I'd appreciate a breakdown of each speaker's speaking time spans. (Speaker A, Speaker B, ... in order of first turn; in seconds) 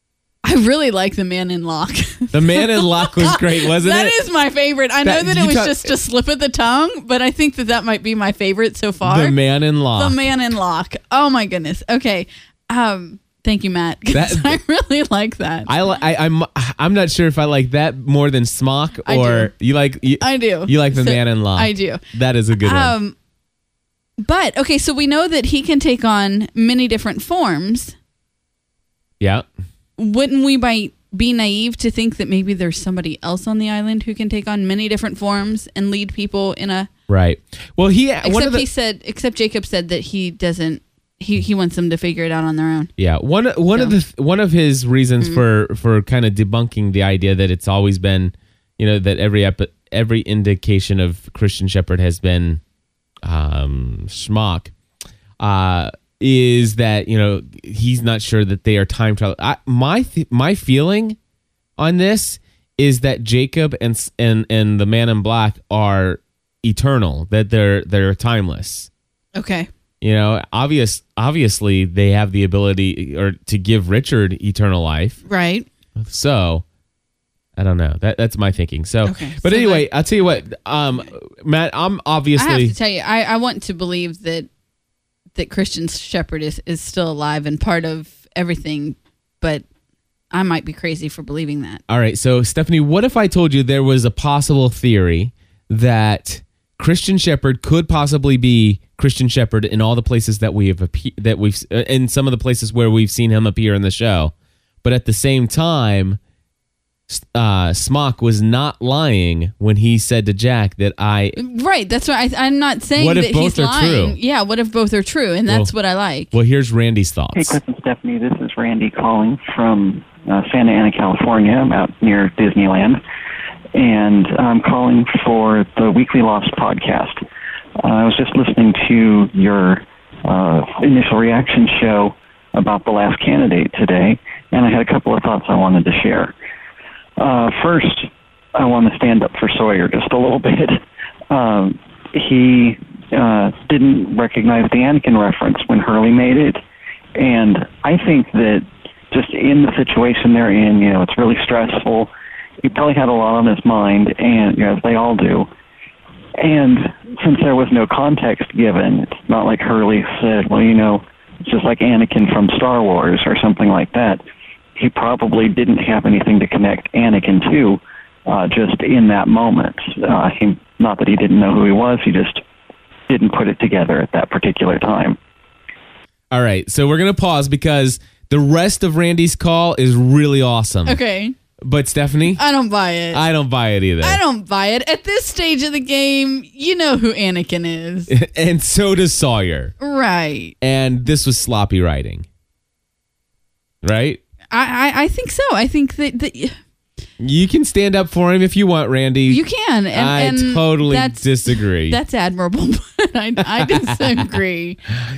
Speaker A: 0.4-9.3, 9.9-15.7, 19.1-19.5, 20.2-22.0, 22.6-23.1, 24.2-27.9, 30.0-36.9, 38.2-42.9, 69.3-69.7, 75.2-75.7, 79.0-79.8, 82.4-84.5, 85.3-89.6, 90.3-91.8, 111.4-116.3, 180.8-181.3, 182.3-183.2, 184.0-188.1, 189.8-190.5, 194.5-196.6, 199.3-204.8
Speaker B: 2.3-4.1, 5.0-5.9, 9.0-10.1, 14.1-14.5, 15.7-22.9, 29.2-29.4, 37.1-38.6, 43.0-52.6, 53.2-54.7, 55.4-61.2, 61.8-68.9, 70.0-75.2, 76.0-76.6, 77.6-82.7, 91.9-104.3, 104.8-106.2, 107.1-111.4, 113.0-114.2, 116.3-117.6, 176.3-181.0, 181.6-182.4, 183.1-184.2, 188.1-189.7, 190.6-192.2, 193.8-194.2, 197.2-199.4, 199.9-202.0
Speaker C: 117.3-123.0, 123.8-127.2, 127.8-136.3, 137.2-146.6, 147.2-152.1, 152.6-155.5, 156.4-164.2, 164.8-172.4, 173.1-175.2